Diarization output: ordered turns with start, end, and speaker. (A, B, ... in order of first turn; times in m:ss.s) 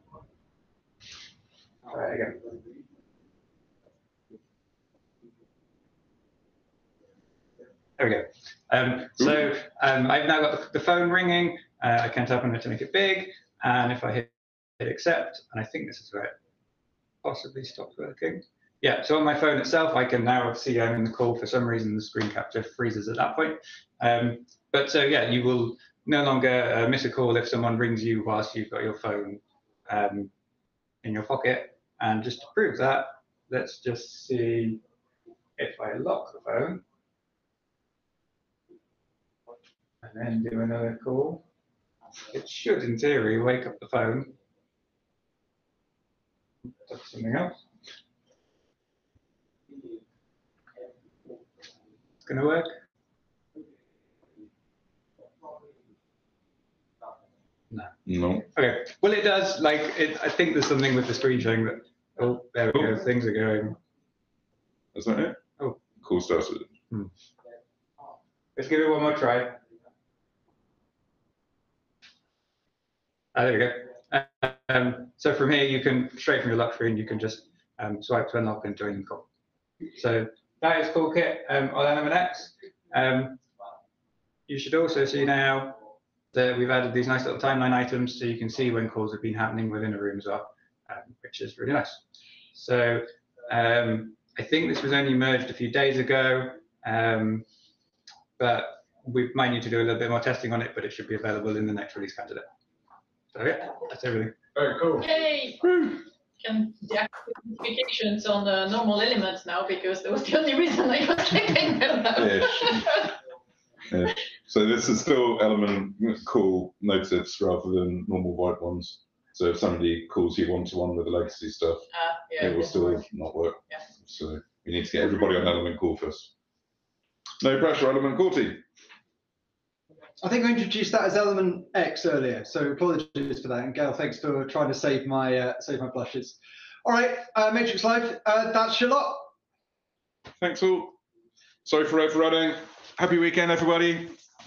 0:01.8-0:02.4 A
0:08.0-0:16.3 A
0:17.2-0:30.3 A
0:31.0-0:34.8 A
0:35.6-0:36.8 A
0:40.0-0:41.4 A
0:42.3-0:44.3 A
0:46.8-0:47.6 A
0:52.2-0:52.7 A
0:58.1-0:58.4 B
0:58.4-1:03.8 A
1:04.9-1:05.4 B
1:06.0-1:06.7 B
1:08.6-1:09.6 A
1:13.3-1:19.2 A
1:20.0-1:23.4 A
1:24.5-1:25.8 A
1:26.3-1:32.0 A
1:32.5-1:37.4 A
1:38.4-1:42.4 A
1:43.3-1:44.3 A
1:44.6-1:45.0 B
1:45.0-1:53.1 C
1:52.1-1:52.8 B
1:53.9-2:06.3 B
2:01.9-2:02.6 C
2:07.4-2:08.6 B
2:10.2-2:19.3 D
2:20.4-2:21.0 B
2:21.6-2:24.1 B